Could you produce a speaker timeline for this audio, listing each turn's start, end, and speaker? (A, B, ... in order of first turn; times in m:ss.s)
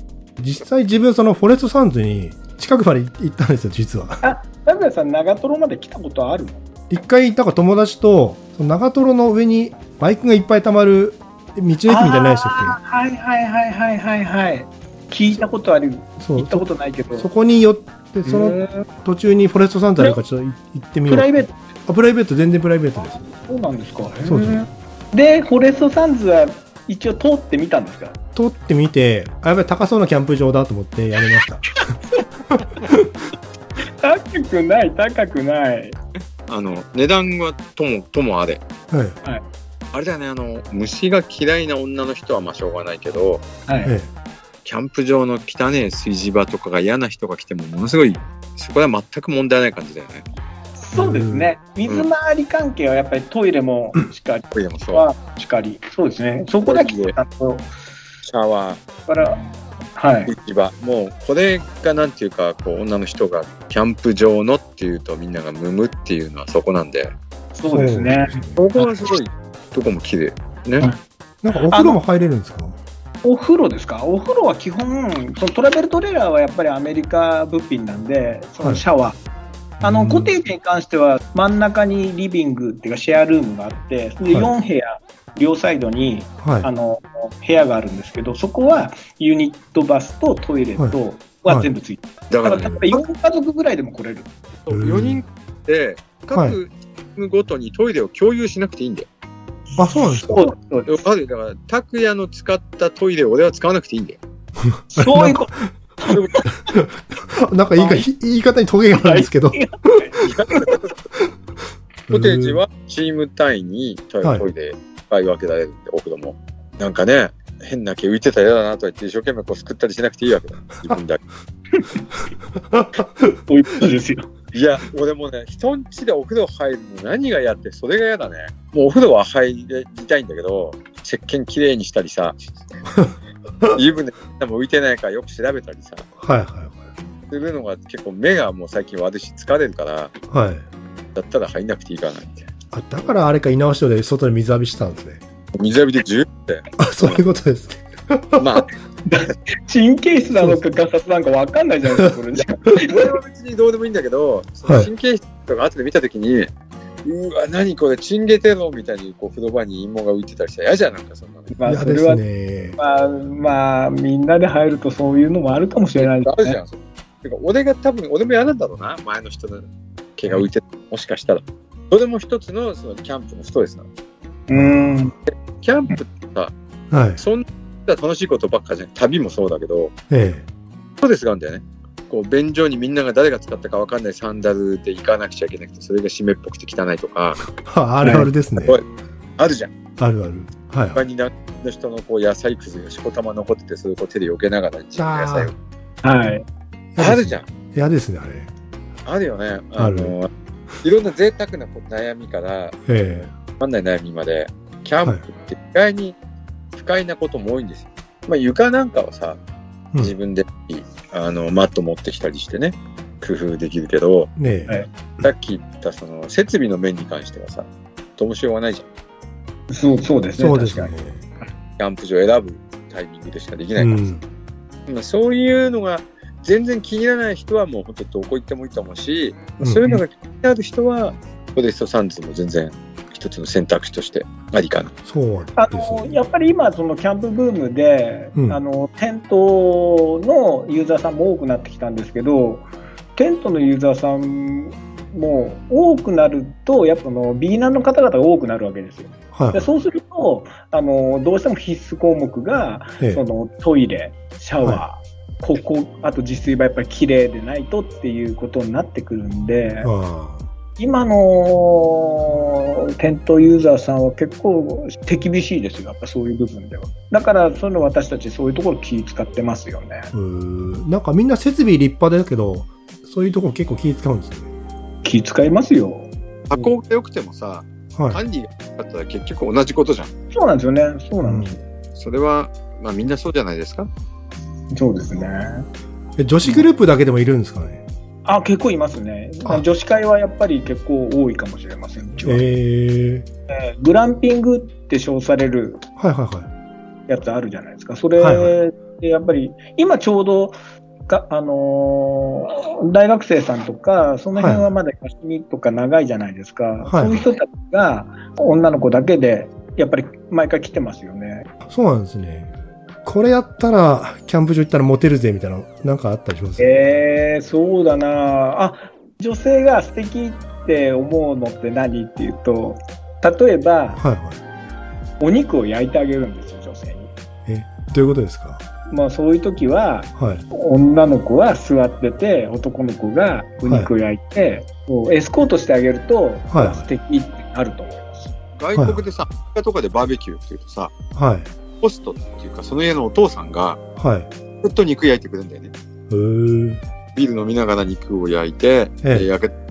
0:00.4-0:04.2 A
0:04.2-0:06.6 B
0:06.9-0:12.8 A
0:11.9-0:17.3 B
0:16.2-0:23.2 A
0:18.2-0:18.8 B
0:21.1-0:21.5 B
0:23.2-0:28.2 B
0:24.2-0:24.6 A
0:28.3-0:31.8 A
0:31.8-0:32.2 B
0:32.6-0:33.1 A
0:34.0-0:36.0 B
0:36.5-0:38.6 C
0:38.9-0:39.2 A
0:39.9-0:43.4 C
0:43.7-0:43.9 B
0:43.8-0:44.1 A
0:44.6-0:50.3 C
0:50.8-0:57.7 B
0:50.9-0:51.5 A
0:54.5-0:55.1 C
0:56.6-0:57.1 C
0:58.2-0:58.8 C
0:59.1-0:59.4 B
1:00.0-1:00.3 B
1:00.3-1:07.1 C
1:07.5-1:08.9 B
1:07.7-1:08.6 A
1:08.6-1:10.9 C
1:11.4-1:12.8 A
1:11.7-1:12.0 B
1:13.2-1:19.2 B
1:19.8-1:20.3 A
1:19.8-1:34.3 B
1:26.4-1:26.7 A
1:30.8-1:31.7 A
1:32.3-1:33.0 C
1:34.6-1:39.1 C
1:34.7-1:35.2 A
1:39.8-1:40.5 A
1:39.8-1:41.0 B
1:40.9-1:44.2 C
1:44.6-1:45.5 A
1:44.9-1:46.7 B
1:46.1-1:46.4 C
1:46.7-1:49.6 A
1:47.8-1:48.0 B
1:48.9-1:50.3 B
1:50.2-1:50.9 C
1:52.1-1:52.6 A
1:52.1-2:01.2 C
1:54.2-1:54.5 A
2:01.8-2:02.0 B
2:02.7-2:03.0 A
2:03.5-2:04.3 B
2:04.5-2:12.4 C
2:12.9-2:13.8 A
2:13.7-2:16.1 C
2:16.2-2:16.8 A
2:17.3-2:20.1 C
2:20.3-2:20.6 A
2:21.1-2:22.5 C
2:22.7-2:25.2 A
2:25.6-2:27.2 C
2:26.8-2:28.6 A
2:28.4-2:28.7 C
2:29.1-2:33.1 B
2:32.8-2:36.5 C
2:37.0-2:41.5 C
2:41.5-2:42.2 B
2:41.6-2:42.8 A
2:42.8-2:46.6 B
2:46.0-2:49.6 C
2:50.2-2:53.9 C
2:54.5-2:55.1 B
2:54.5-2:55.1 A
2:55.3-2:56.5 C
2:56.9-2:57.2 A
2:57.2-2:59.9 C
3:00.1-3:00.4 A
3:01.0-3:07.4 C
3:07.5-3:08.8 A
3:08.0-3:08.3 B
3:08.6-3:08.8 C
3:09.4-3:09.7 C
3:10.0-3:11.0 A
3:10.9-3:15.5 C
3:15.0-3:15.5 A
3:16.0-3:16.4 B
3:17.0-3:18.5 A
3:17.0-3:17.4 C
3:19.0-3:20.3 C
3:19.8-3:20.1 A
3:20.8-3:22.8 C
3:22.9-3:23.3 A
3:23.5-3:26.2 C
3:26.7-3:29.4 C
3:30.0-3:34.3 C
3:34.4-3:34.8 A
3:35.2-3:38.8 C
3:39.7-3:40.9 B
3:40.4-3:41.2 A
3:41.8-3:44.2 C
3:43.8-3:44.2 A
3:44.9-3:54.9 C
3:49.6-3:50.0 A
3:55.0-3:56.1 A
3:55.6-4:19.9 B
4:09.3-4:09.7 A
4:19.8-4:20.4 A
4:20.8-4:30.1 B
4:30.1-4:34.5 A
4:35.0-4:36.7 B
4:36.5-4:40.1 C
4:38.0-4:38.2 A
4:40.3-4:41.6 B
4:41.2-4:41.6 A
4:41.9-4:43.9 C
4:44.7-4:45.7 B
4:46.2-4:47.8 A
4:48.2-4:52.5 B
4:52.2-4:53.3 A
4:53.5-4:55.8 B
4:56.0-4:56.5 A
4:57.1-5:00.6 B
4:58.2-4:58.6 A
5:01.1-5:11.5 B
5:04.4-5:04.7 A
5:06.8-5:07.2 A
5:11.6-5:12.5 A
5:13.0-5:16.8 A
5:16.6-5:24.0 B
5:24.0-5:24.4 A
5:25.2-5:27.1 B
5:27.4-5:28.6 A
5:28.9-5:38.3 B
5:30.2-5:30.4 A
5:33.6-5:33.9 A
5:36.5-5:36.8 A
5:38.6-5:40.9 C
5:38.8-5:39.0 A
5:41.1-5:41.5 A
5:41.8-5:43.8 C
5:44.0-5:44.3 A
5:44.6-5:45.7 C
5:46.1-5:46.8 A
5:47.2-5:49.5 C